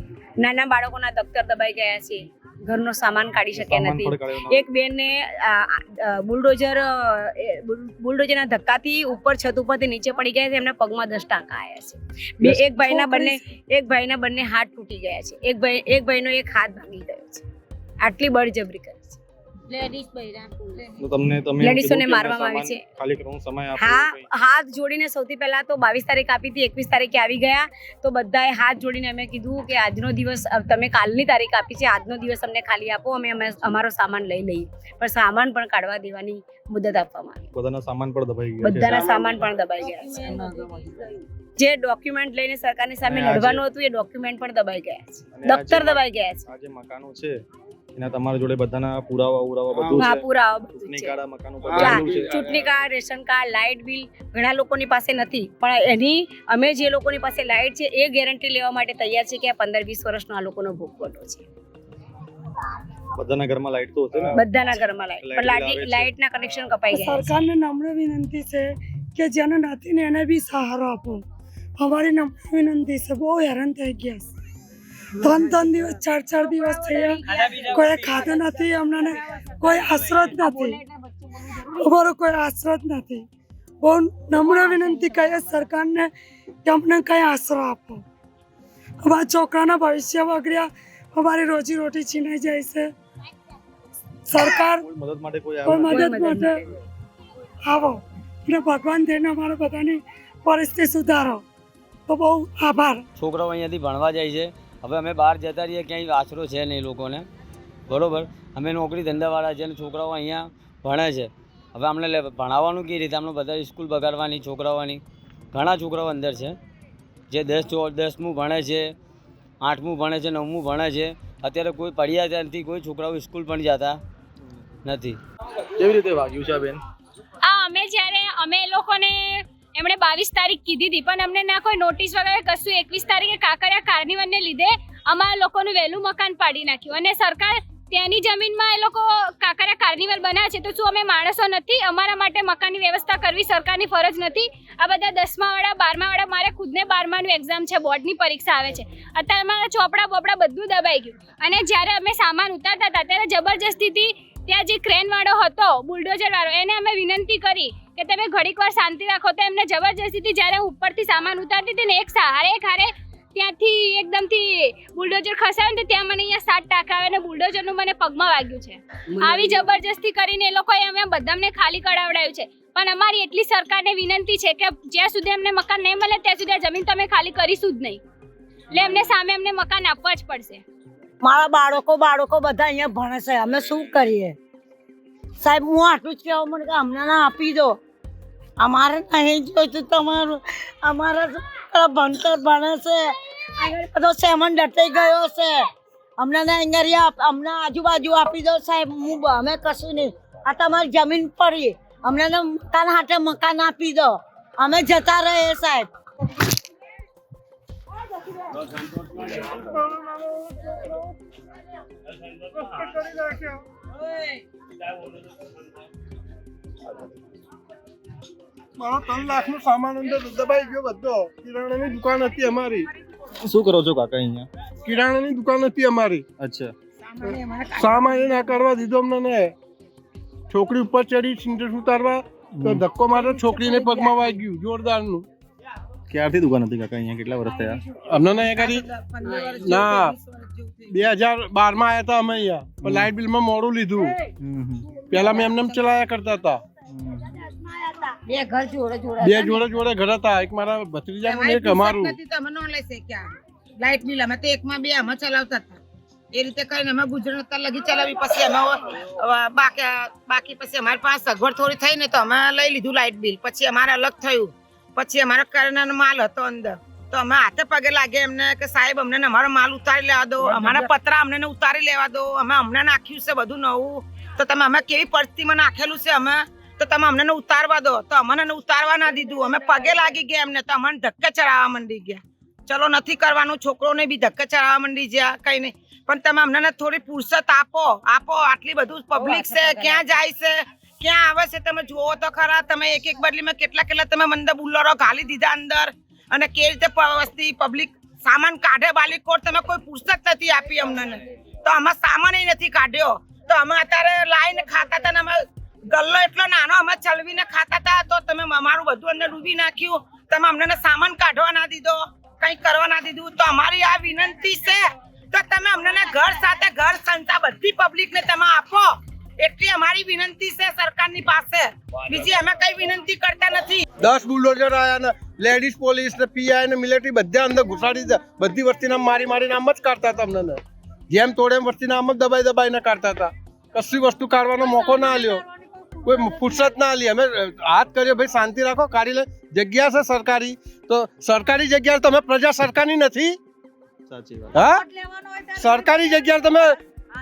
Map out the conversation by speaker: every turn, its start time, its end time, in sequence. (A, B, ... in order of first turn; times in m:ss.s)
0:00.4-0:17.4 A
0:03.6-0:04.7 B
0:12.8-0:13.4 C
0:18.0-0:19.2 A
0:19.7-0:20.7 D
0:21.0-0:24.3 B
0:21.6-0:22.8 A
0:23.8-0:37.5 A
0:37.5-0:39.1 B
0:38.6-0:40.4 A
0:40.2-0:40.8 E
0:41.6-0:46.4 A
0:43.1-0:43.6 B
0:45.3-0:47.3 B
0:48.0-0:52.5 B
0:50.0-0:51.2 A
0:51.7-1:01.4 A
1:03.2-1:04.4 B
1:04.4-1:07.3 A
1:05.2-1:06.1 B
1:06.9-1:11.2 C
1:11.8-1:14.3 C
1:15.2-1:20.8 C
1:18.0-1:18.4 D
1:19.7-1:20.7 D
1:21.5-1:23.3 C
1:23.8-1:26.1 C
1:24.4-1:25.5 D
1:26.6-1:28.0 C
1:29.0-1:32.9 C
1:34.3-1:34.8 C
1:34.7-1:36.1 B
1:35.6-1:36.6 C
1:35.8-1:36.7 A
1:37.6-1:41.4 C
1:42.1-1:43.0 C
1:43.2-1:47.3 F
1:47.9-1:55.0 F
1:55.5-1:56.6 F
1:57.3-1:58.9 F
1:59.6-2:04.0 F
2:04.4-2:04.7 B
2:04.8-2:05.2 F
2:05.8-2:06.8 B
2:07.4-2:58.0 G
2:49.2-2:49.6 A
2:58.7-3:00.6 G
3:01.2-3:04.4 D
3:05.4-3:07.8 D
3:08.6-3:15.6 D
3:16.2-3:25.9 D
3:32.6-3:33.6 H
3:38.8-3:42.9 H
3:43.4-3:44.5 B
3:44.9-3:46.2 H
3:46.4-3:46.7 B
3:47.0-3:48.7 E
3:47.8-3:49.5 H
3:50.5-3:55.3 H
3:52.6-3:52.8 B
3:53.1-3:54.4 E
3:56.1-3:57.8 B
3:58.1-3:58.8 H
3:58.3-4:01.1 E
3:59.6-4:00.2 H
4:00.9-4:04.2 H
4:02.8-4:03.1 B
4:04.4-4:04.9 B
4:05.1-4:05.9 E
4:05.1-4:06.6 H
4:06.9-4:07.4 B
4:08.5-4:09.7 D
4:09.2-4:12.2 H
4:11.2-4:15.8 E
4:16.3-5:23.8 E
5:24.0-5:35.4 H
5:36.0-5:43.4 H
5:44.1-5:44.6 B
5:44.5-5:44.8 H
5:45.6-5:46.8 H